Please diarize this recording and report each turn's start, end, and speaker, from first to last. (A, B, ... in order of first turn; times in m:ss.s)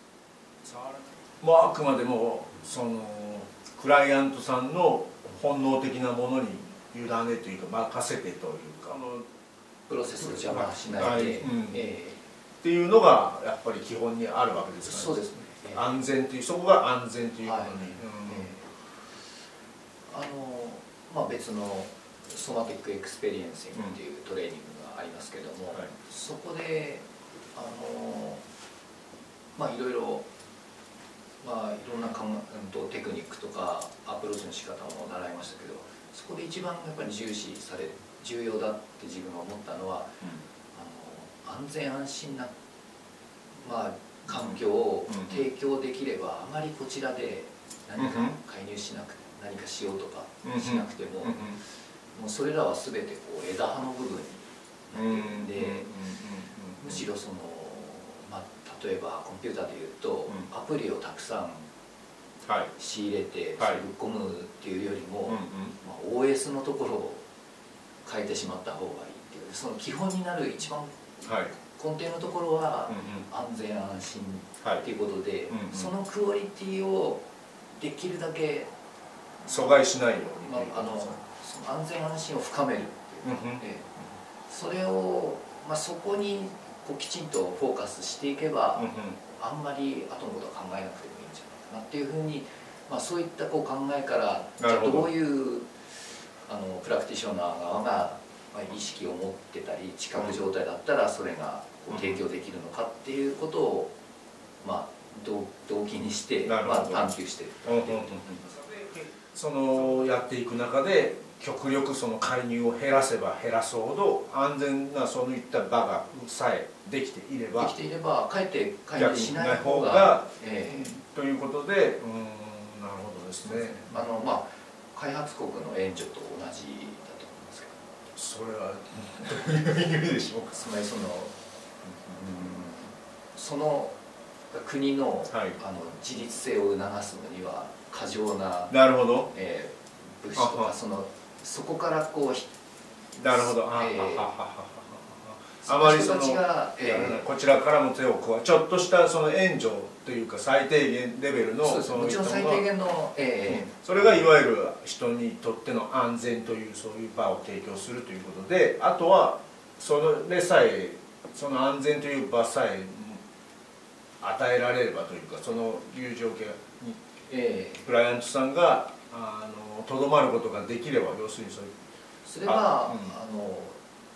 0:00.6-0:09.2 A
0:09.9-0:12.2 B
0:10.3-0:11.8 A
0:12.6-0:18.6 A
0:14.8-0:15.9 B
0:17.4-0:18.7 B
0:20.1-0:28.4 B
0:29.6-0:30.3 B
0:31.4-0:40.2 B
0:40.7-0:42.5 B
0:43.6-0:55.9 B
0:44.3-0:44.6 A
0:45.1-0:45.4 A
0:48.0-0:48.3 A
0:50.4-0:51.6 A
0:54.9-0:57.0 A
0:56.8-1:01.6 B
1:02.4-1:02.7 A
1:02.8-1:07.2 B
1:05.3-1:05.8 A
1:08.0-1:18.7 B
1:11.2-1:11.5 A
1:12.9-1:13.2 A
1:15.5-1:15.9 A
1:19.4-1:21.2 A
1:20.2-1:23.9 B
1:23.2-1:23.6 A
1:24.5-1:35.8 B
1:28.8-1:29.2 A
1:34.6-1:35.1 A
1:36.5-1:43.9 B
1:41.9-1:42.2 A
1:44.6-1:48.3 B
1:46.4-1:47.1 A
1:47.6-1:57.7 A
1:57.6-2:01.0 B
1:59.0-2:03.9 A
2:03.4-2:07.9 B
2:08.2-2:10.7 A
2:10.5-2:11.3 B
2:11.9-2:13.9 B
2:14.5-2:18.7 B
2:15.3-2:15.6 A
2:18.7-2:19.3 A
2:19.3-2:22.5 B
2:20.3-2:20.7 A
2:23.1-2:24.3 B
2:23.2-2:32.6 A
2:25.6-2:27.2 B
2:31.6-2:34.3 B
2:33.5-2:43.2 A
2:44.2-2:47.1 A
2:47.3-2:47.8 B
2:47.8-2:51.7 A
2:52.2-2:53.8 B
2:52.4-2:53.1 A